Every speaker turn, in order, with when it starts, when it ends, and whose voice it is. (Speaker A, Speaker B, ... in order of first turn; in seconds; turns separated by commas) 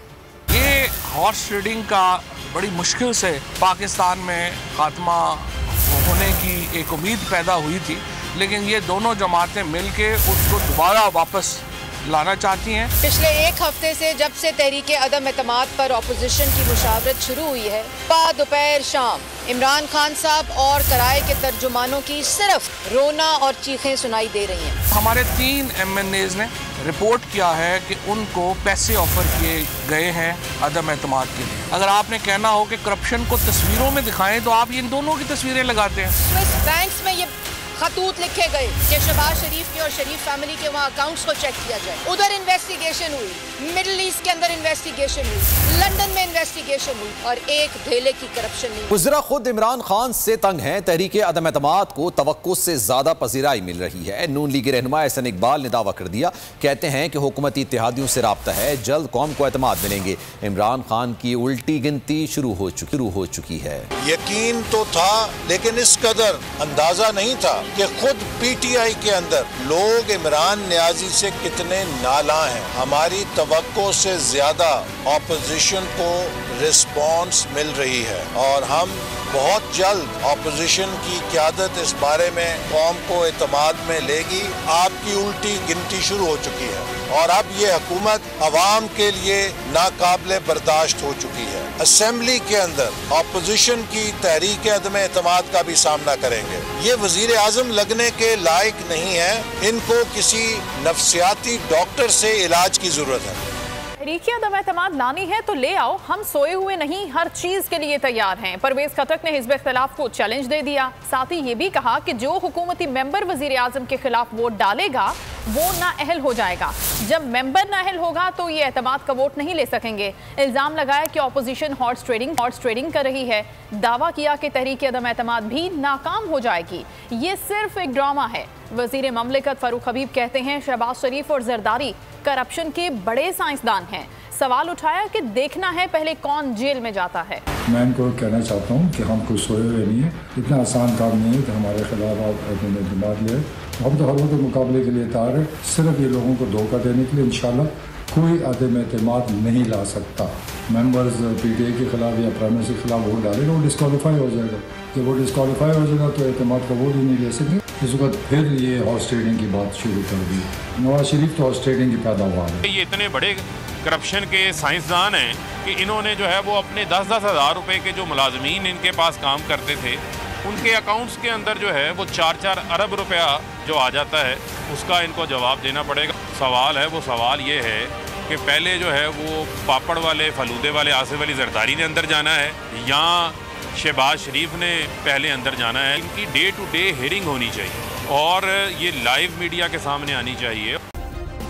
Speaker A: 0.5-12.9, Speaker B: 13.0-24.8, Speaker A: 24.9-36.1, Speaker B: 36.2-48.9, Speaker C: 48.9-63.9, Speaker D: 64.0-103.4, Speaker E: 104.0-137.4, Speaker F: 137.7-162.6, Speaker G: 162.6-190.8